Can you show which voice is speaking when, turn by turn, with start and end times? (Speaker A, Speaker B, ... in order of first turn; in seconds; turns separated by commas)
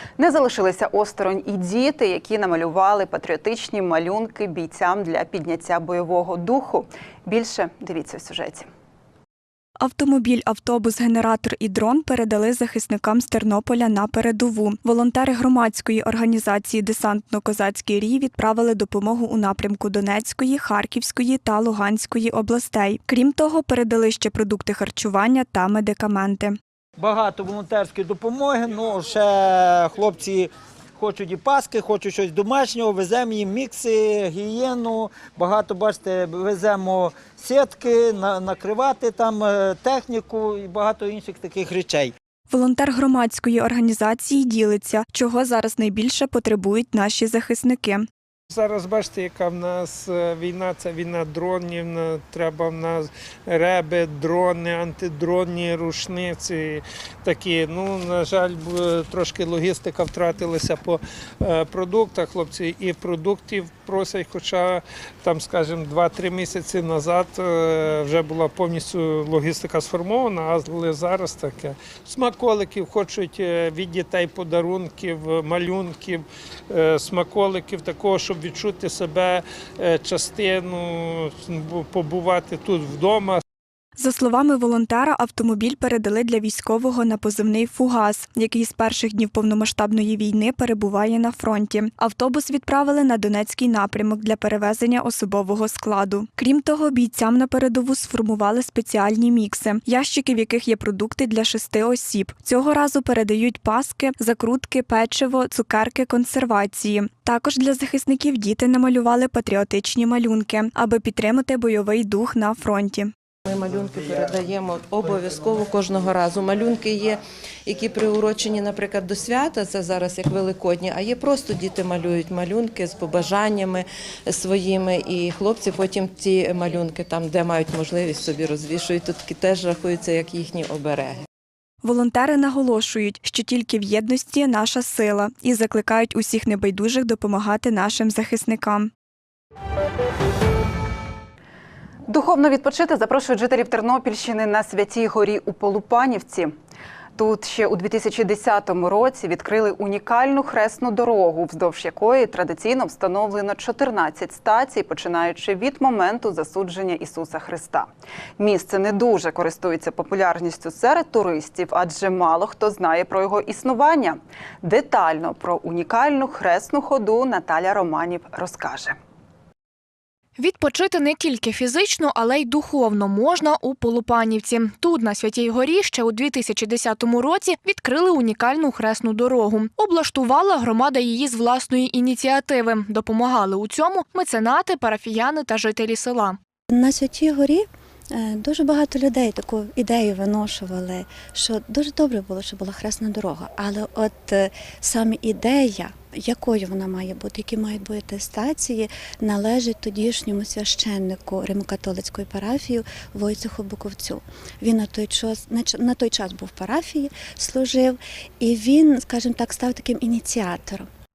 Speaker A: 0.2-8.7, Speaker B: 9.8-26.6, Speaker C: 27.0-42.1, Speaker B: 42.5-48.1, Speaker D: 48.5-83.4, Speaker B: 84.0-113.1, Speaker E: 113.5-131.2, Speaker B: 131.8-138.9, Speaker A: 142.1-146.5, Speaker A: 147.2-169.0, Speaker F: 170.4-186.4, Speaker G: 186.7-210.9